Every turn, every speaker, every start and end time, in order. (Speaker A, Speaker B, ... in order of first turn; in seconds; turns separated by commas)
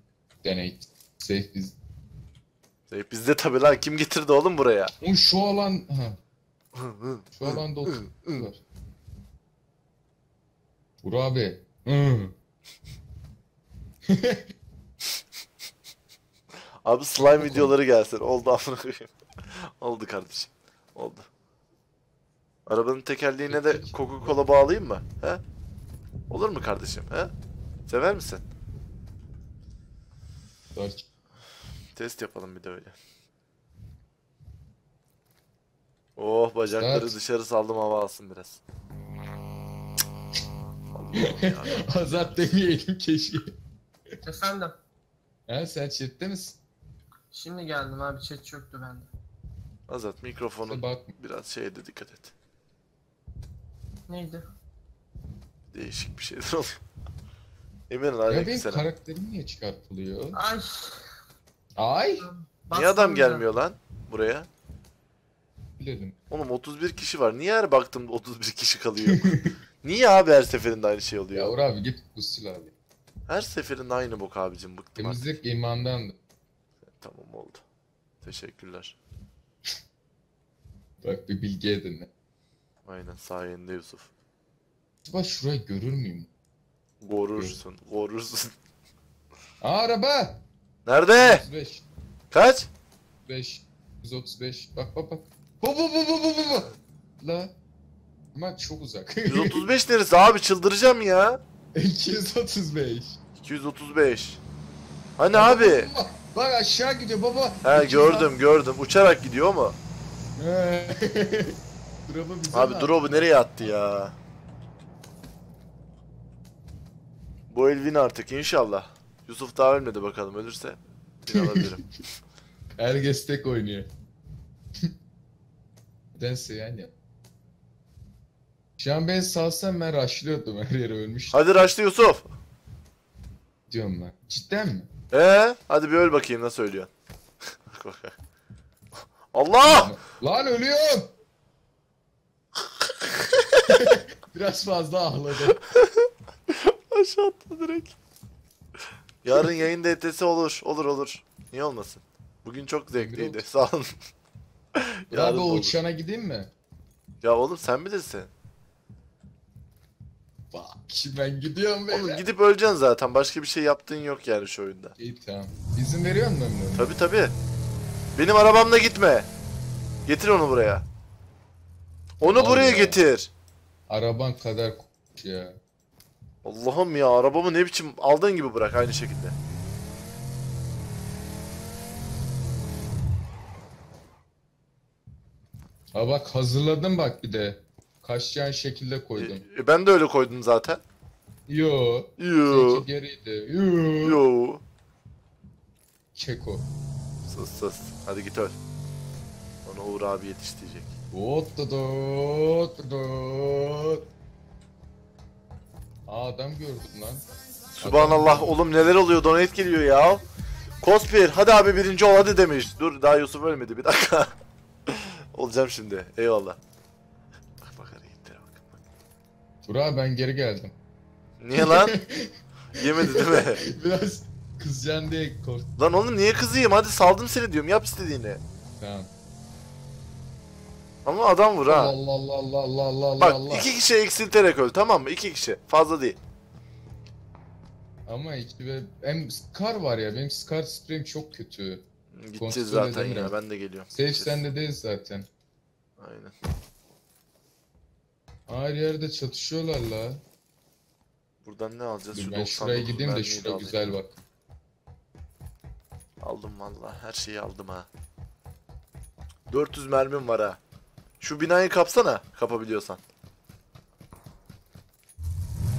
Speaker A: 0.4-1.7, Speaker B: 2.9-4.9, Speaker A: 5.0-6.2, Speaker B: 6.7-8.5, Speaker A: 7.3-8.6, Speaker A: 11.0-12.3, Speaker A: 14.1-14.4, Speaker B: 16.8-21.3, Speaker A: 17.3-17.7, Speaker B: 22.6-25.4, Speaker A: 23.5-24.3, Speaker B: 26.3-27.3, Speaker B: 27.9-28.4, Speaker A: 30.7-31.0, Speaker B: 31.9-32.9, Speaker B: 36.2-38.6, Speaker A: 36.7-37.1, Speaker B: 40.9-42.4, Speaker A: 41.2-43.5, Speaker C: 44.2-44.8, Speaker A: 45.5-46.6, Speaker C: 47.3-49.1, Speaker B: 49.9-52.3, Speaker A: 50.7-51.1, Speaker C: 54.1-54.4, Speaker B: 55.7-56.8, Speaker B: 57.9-58.8, Speaker A: 58.3-60.4, Speaker C: 60.3-61.1, Speaker A: 61.8-62.3, Speaker C: 62.2-63.5, Speaker B: 62.7-64.5, Speaker A: 65.8-66.2, Speaker B: 66.3-71.5, Speaker A: 69.1-69.5, Speaker A: 71.3-72.7, Speaker B: 73.3-75.2, Speaker A: 75.0-76.1, Speaker B: 77.0-77.6, Speaker B: 78.2-79.0, Speaker A: 81.0-82.1, Speaker B: 82.8-84.1, Speaker A: 85.0-86.3, Speaker B: 87.0-88.5, Speaker A: 89.6-90.4, Speaker B: 90.8-91.4, Speaker A: 91.2-91.8, Speaker B: 92.3-92.7, Speaker A: 93.3-97.5, Speaker A: 98.3-99.6, Speaker B: 99.2-101.4, Speaker A: 101.7-103.2, Speaker B: 103.4-104.4, Speaker B: 105.2-105.9, Speaker A: 105.3-108.3, Speaker B: 107.6-109.8, Speaker A: 110.4-113.7, Speaker B: 112.5-114.1, Speaker B: 117.5-121.8, Speaker A: 121.3-121.7, Speaker A: 122.8-123.9, Speaker A: 126.2-126.9, Speaker A: 128.8-131.7, Speaker B: 131.3-132.2, Speaker A: 133.7-134.9, Speaker B: 135.1-136.9, Speaker B: 137.7-138.1, Speaker B: 139.3-139.9, Speaker A: 139.6-141.1, Speaker B: 143.0-143.9, Speaker A: 143.7-145.6, Speaker B: 145.7-147.9, Speaker B: 149.2-153.9, Speaker A: 152.9-153.4, Speaker B: 154.7-155.8, Speaker A: 155.1-156.5, Speaker B: 157.2-158.3, Speaker A: 160.5-162.2, Speaker B: 161.9-164.9, Speaker A: 165.0-166.9, Speaker B: 166.7-167.3, Speaker B: 168.2-169.3, Speaker B: 170.1-170.8, Speaker B: 172.2-173.3, Speaker A: 172.3-173.0, Speaker A: 173.9-175.6, Speaker B: 176.4-179.3, Speaker A: 185.9-189.4, Speaker B: 189.2-190.8, Speaker A: 191.5-194.2, Speaker B: 192.2-192.8, Speaker B: 194.0-194.6, Speaker A: 196.1-196.7, Speaker B: 197.3-198.5, Speaker B: 199.6-200.9, Speaker A: 201.1-204.1, Speaker A: 206.1-207.2, Speaker B: 207.8-210.2, Speaker A: 207.8-208.6, Speaker B: 210.8-214.3, Speaker B: 214.9-216.6, Speaker B: 217.6-218.6, Speaker A: 219.6-220.7, Speaker B: 221.4-221.9, Speaker A: 221.6-225.7, Speaker B: 222.7-223.6, Speaker B: 225.8-228.4, Speaker A: 228.8-229.1, Speaker B: 231.0-231.9, Speaker A: 231.7-233.7, Speaker B: 233.2-236.2, Speaker A: 238.1-241.8, Speaker B: 242.1-244.4, Speaker A: 242.4-243.3, Speaker A: 243.9-245.3, Speaker B: 246.0-246.3, Speaker A: 248.5-250.2, Speaker B: 251.4-253.8, Speaker A: 252.1-254.1, Speaker B: 256.2-257.9, Speaker B: 259.5-260.6, Speaker B: 261.2-263.0